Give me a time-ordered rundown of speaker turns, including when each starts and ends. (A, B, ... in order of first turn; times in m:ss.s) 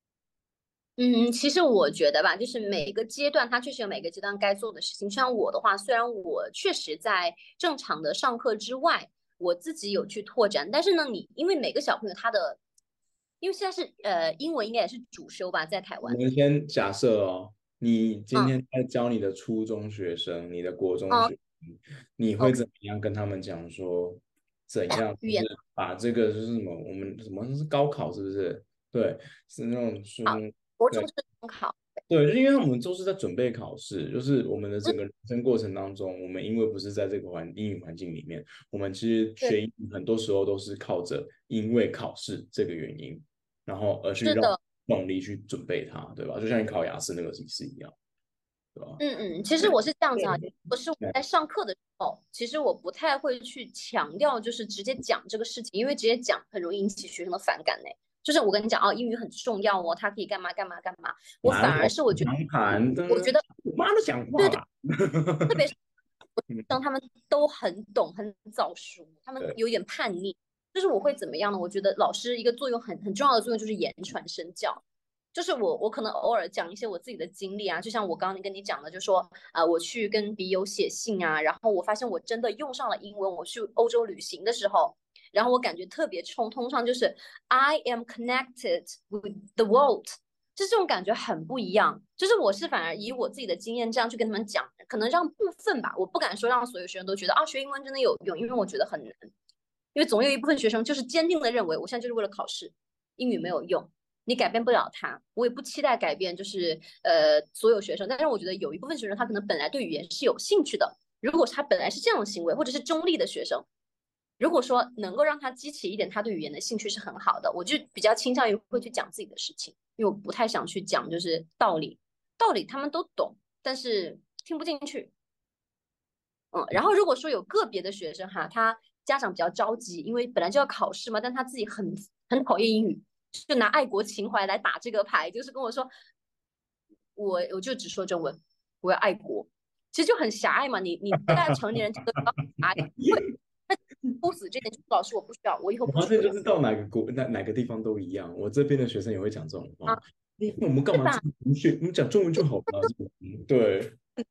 0:01.0-0:12.6 A
0:13.4-0:16.2 A
0:16.0-0:31.1 B
0:25.2-0:25.5 A
0:30.2-0:31.8 A
0:32.1-0:47.9 B
0:44.2-0:44.6 A
0:48.7-0:49.0 B
0:49.0-1:02.3 A
0:49.6-0:50.5 B
1:01.4-1:05.6 B
1:03.1-1:03.4 A
1:05.5-1:05.7 A
1:06.7-1:14.8 A
1:15.3-1:39.2 A
1:39.9-1:53.6 A
1:54.4-2:05.1 A
2:06.5-2:15.9 A
2:17.2-2:26.4 A
2:25.9-2:34.0 B
2:30.9-2:31.2 A